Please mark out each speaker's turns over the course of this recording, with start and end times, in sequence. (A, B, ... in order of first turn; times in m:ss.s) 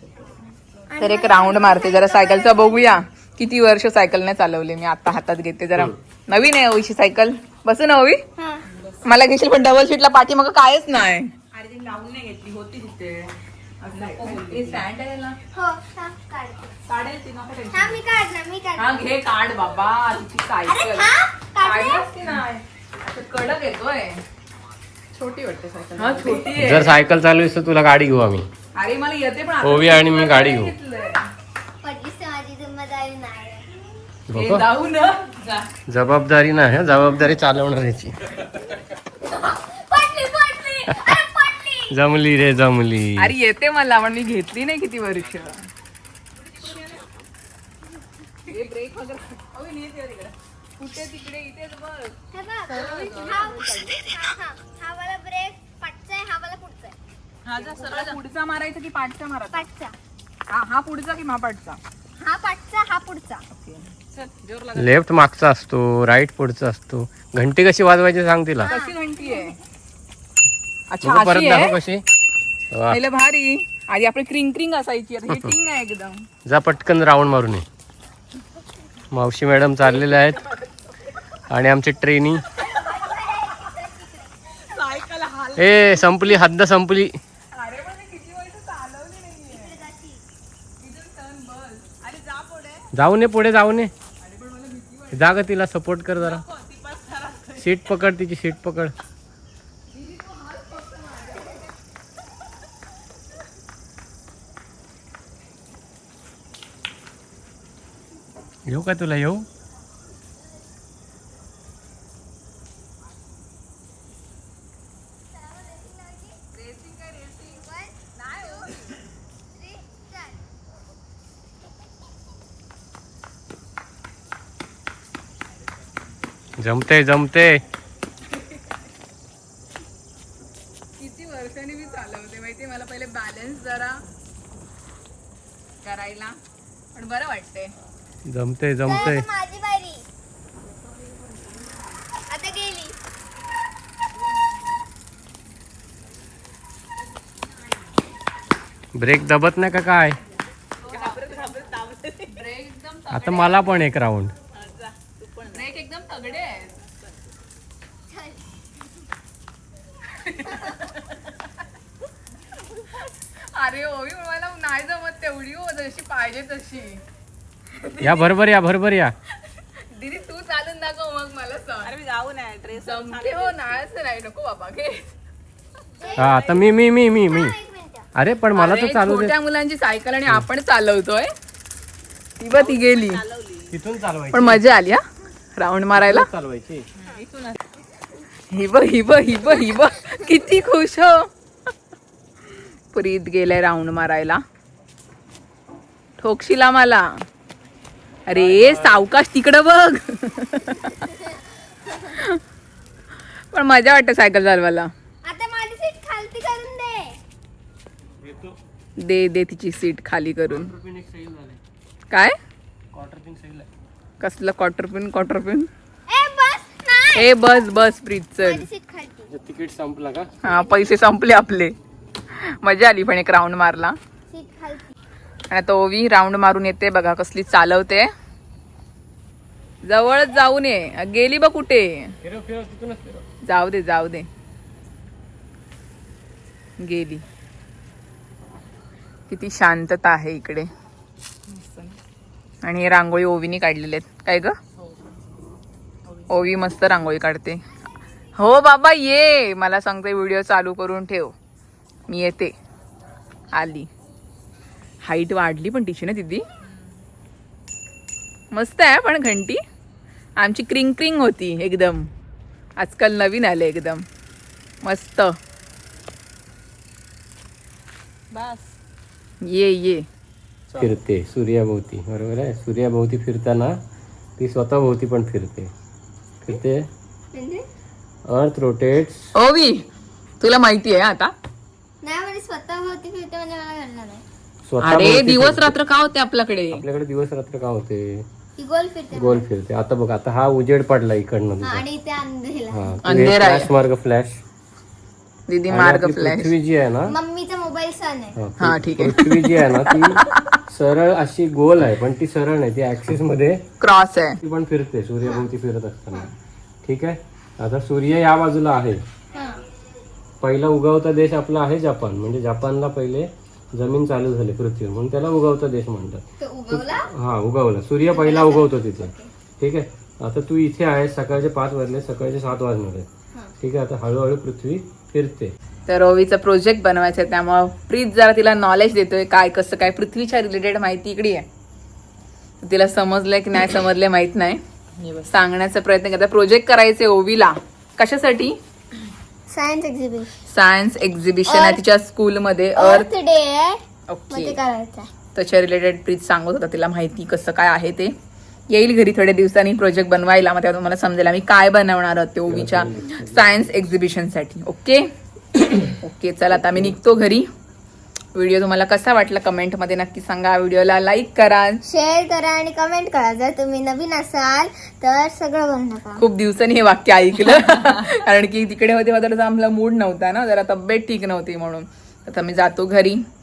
0:00.9-0:03.0 A
0:01.0-0:08.2 B
0:08.4-0:08.6 A
0:08.8-0:09.0 C
0:09.0-0:11.3 B
0:11.5-0:14.9 C
0:13.9-0:15.4 B
0:15.5-0:16.8 A
0:16.8-0:18.0 C
0:17.7-0:18.9 A
0:18.8-0:24.2 B
0:20.7-0:22.1 A
0:25.1-0:26.6 C
0:26.0-0:27.0 B
0:26.6-0:28.5 D
0:28.8-0:31.3 B
0:29.6-0:30.7 D
0:31.8-0:33.8 A
0:34.3-0:34.7 D
0:34.3-0:35.6 B
0:35.9-0:38.6 D
0:39.3-0:41.9 A
0:40.9-0:41.2 D
0:41.9-0:43.3 D
0:43.2-0:45.6 B
0:46.6-0:47.0 C
0:48.5-0:50.2 B
0:49.8-0:50.3 C
0:50.8-0:52.2 B
0:52.3-0:57.0 A
0:52.8-0:53.4 C
0:53.1-0:53.9 B
0:57.5-0:58.2 C
0:57.5-0:59.7 B
0:59.5-1:00.0 A
1:00.5-1:01.8 B
1:02.2-1:03.4 A
1:03.5-1:03.9 B
1:04.1-1:04.9 C
1:04.7-1:08.7 D
1:08.6-1:09.0 A
1:08.7-1:09.6 B
1:10.9-1:11.8 B
1:11.0-1:12.0 D
1:12.7-1:13.0 D
1:12.9-1:16.2 B
1:16.4-1:17.7 D
1:19.1-1:20.4 D
1:21.5-1:22.5 D
1:22.6-1:25.0 A
1:24.7-1:25.8 C
1:25.6-1:27.2 D
1:27.5-1:29.8 B
1:29.5-1:30.2 A
1:30.8-1:32.0 B
1:32.0-1:32.9 C
1:32.9-1:33.9 D
1:34.2-1:35.1 B
1:35.1-1:36.5 D
1:36.2-1:37.7 C
1:37.6-1:38.9 D
1:40.1-1:41.1 B
1:48.7-1:49.5 D
1:55.3-1:56.5 A
1:56.6-1:57.0 B
1:57.3-1:59.0 A
1:59.5-2:00.4 A
2:06.6-2:07.6 D
2:11.0-2:14.0 B
2:15.8-2:16.4 B
2:17.0-2:17.7 B
2:18.3-2:19.3 D
2:18.9-2:20.0 A
2:22.3-2:23.0 A
2:29.0-2:30.2 D
2:30.9-2:31.7 B
2:30.9-2:32.4 C
2:32.3-2:33.8 B
2:33.1-2:34.4 D
2:34.6-2:35.6 C
2:35.5-2:36.8 B
2:38.1-2:38.5 A
2:40.3-2:40.8 B
2:43.5-2:47.0 B
2:47.8-2:48.4 B
2:48.0-2:49.2 D
2:49.8-2:52.0 B
2:51.8-2:53.6 C
2:52.8-2:55.1 B
2:56.0-2:56.3 A
2:56.2-2:56.8 C
2:56.2-2:57.6 D
2:57.3-2:58.1 A
2:58.2-2:59.4 D
2:58.5-3:01.3 B
3:02.4-3:03.2 B
3:02.5-3:03.7 C
3:03.7-3:04.6 D
3:04.3-3:05.0 B
3:05.6-3:06.3 B
3:05.9-3:06.9 D
3:07.0-3:07.6 C
3:08.5-3:11.3 B
3:12.6-3:14.4 B
3:16.2-3:17.2 B
3:18.3-3:21.1 B
3:18.3-3:19.0 D
3:21.9-3:22.4 B
3:23.5-3:24.9 B
3:25.2-3:27.2 A
3:28.2-3:28.6 D
3:29.0-3:30.7 B
3:30.5-3:31.6 D
3:32.1-3:32.4 B
3:32.9-3:33.7 D
3:34.2-3:35.7 B
3:36.1-3:37.6 A
3:37.2-3:38.6 B
3:38.4-3:39.3 A
3:39.3-3:40.3 D
3:40.4-3:41.8 B
3:42.3-3:44.0 B
3:44.3-3:45.0 A
3:45.5-3:48.1 B
3:49.8-3:52.2 B
3:52.2-3:53.2 D
3:53.5-3:54.3 B
3:56.8-3:57.2 B
3:59.3-4:00.7 B
4:01.5-4:02.0 C
4:02.6-4:04.6 B
4:06.1-4:06.4 C
4:06.3-4:07.6 B
4:08.4-4:11.3 B
4:12.1-4:12.6 B
4:13.5-4:13.9 B
4:15.0-4:16.4 B
4:18.5-4:19.6 B
4:20.4-4:22.1 B
4:22.8-4:24.0 B
4:24.8-4:25.4 B
4:28.3-4:28.7 C
4:29.5-4:30.1 B
4:30.8-4:33.8 D
4:34.4-4:35.7 D
4:36.4-4:36.9 D
4:37.3-4:37.6 A
4:38.3-4:39.3 D
4:39.4-4:39.9 B
4:40.4-4:41.3 B
4:42.0-4:44.2 A
4:44.7-4:45.8 D
4:44.8-4:46.8 B
4:46.7-4:48.3 D
4:48.6-4:49.5 A
4:49.1-4:51.8 D
4:51.6-4:53.0 A
4:52.7-4:54.4 D
4:53.0-4:53.7 B
4:55.5-4:56.5 B
4:55.7-4:57.2 D
4:57.1-4:58.4 A
4:58.4-5:03.6 D
4:58.6-5:00.6 B
5:03.8-5:04.4 B
5:04.4-5:06.3 D
5:06.8-5:09.0 D
5:09.3-5:09.6 A
5:10.4-5:23.1 D
5:16.4-5:17.1 A
5:18.0-5:19.3 A
5:23.6-5:25.5 D
5:25.9-5:31.5 B
5:32.6-5:34.6 B
5:35.0-5:35.3 C
5:35.3-5:38.6 B
5:39.5-5:40.3 A
5:40.5-5:43.1 B
5:41.5-5:41.8 A
5:42.8-5:45.1 A
5:44.1-5:44.6 B
5:45.4-5:48.2 B
5:48.7-5:55.1 B
5:52.5-5:53.4 D
5:55.7-5:57.5 B
5:58.4-6:01.8 B
6:01.8-6:06.2 A
6:06.2-6:13.2 B